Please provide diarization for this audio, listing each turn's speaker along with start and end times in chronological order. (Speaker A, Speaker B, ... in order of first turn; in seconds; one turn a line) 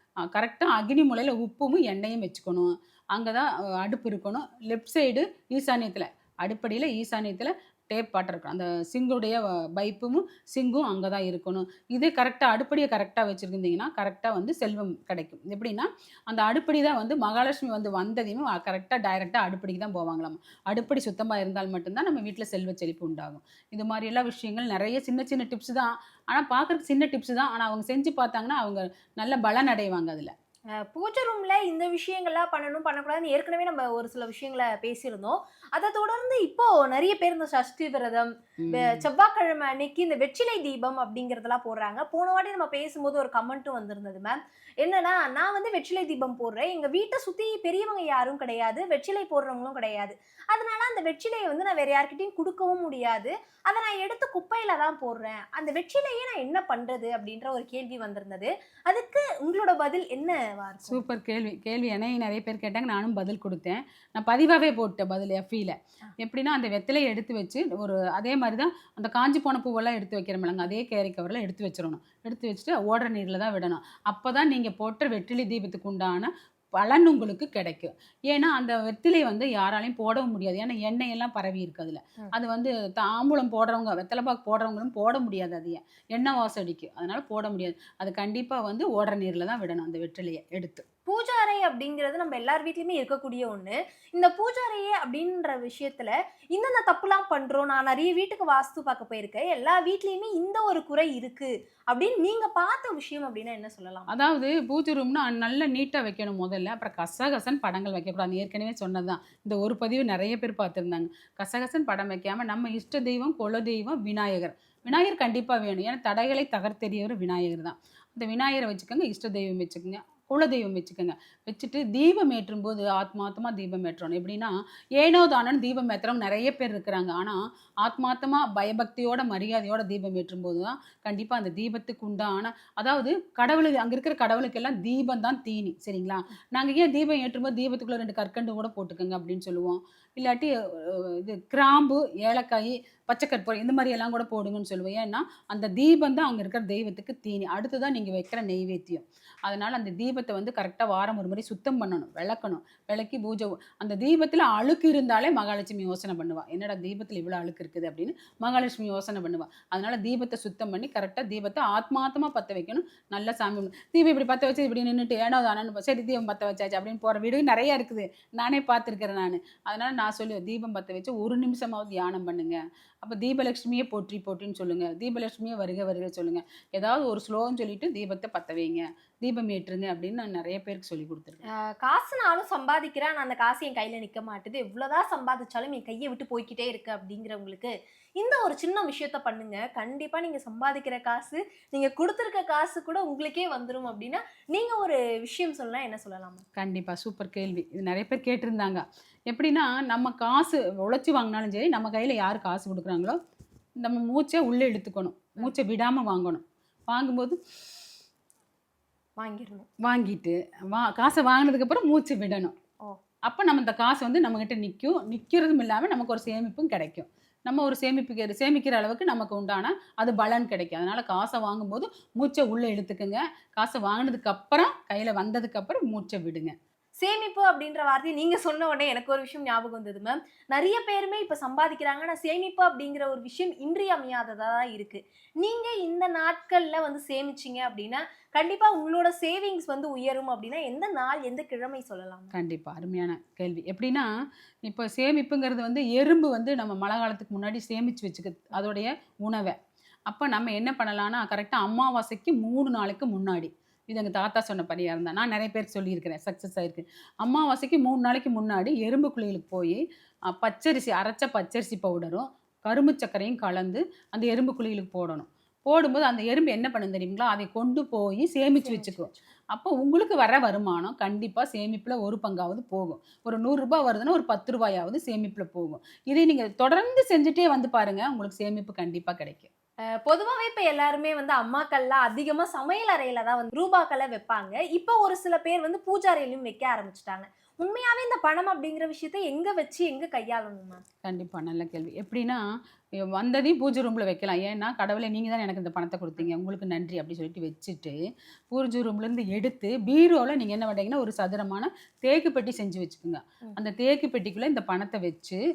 Speaker A: 0.3-30.3
Speaker B: 30.8-61.0
Speaker A: 38.6-39.1
Speaker A: 60.9-90.8
Speaker B: 91.0-104.1
Speaker A: 104.1-181.4
Speaker B: 181.8-196.4
Speaker A: 196.6-203.2
Speaker A: 203.8-207.4
Speaker B: 209.2-209.7
Speaker A: 209.8-212.5
Speaker A: 213.3-226.5
Speaker B: 227.0-242.3
Speaker A: 242.3-244.1
Speaker A: 244.7-249.6
Speaker A: 250.1-259.8
Speaker A: 260.3-279.5
Speaker B: 268.6-269.2
Speaker B: 280.0-290.8
Speaker A: 291.0-292.4
Speaker A: 293.1-298.0
Speaker A: 298.5-305.4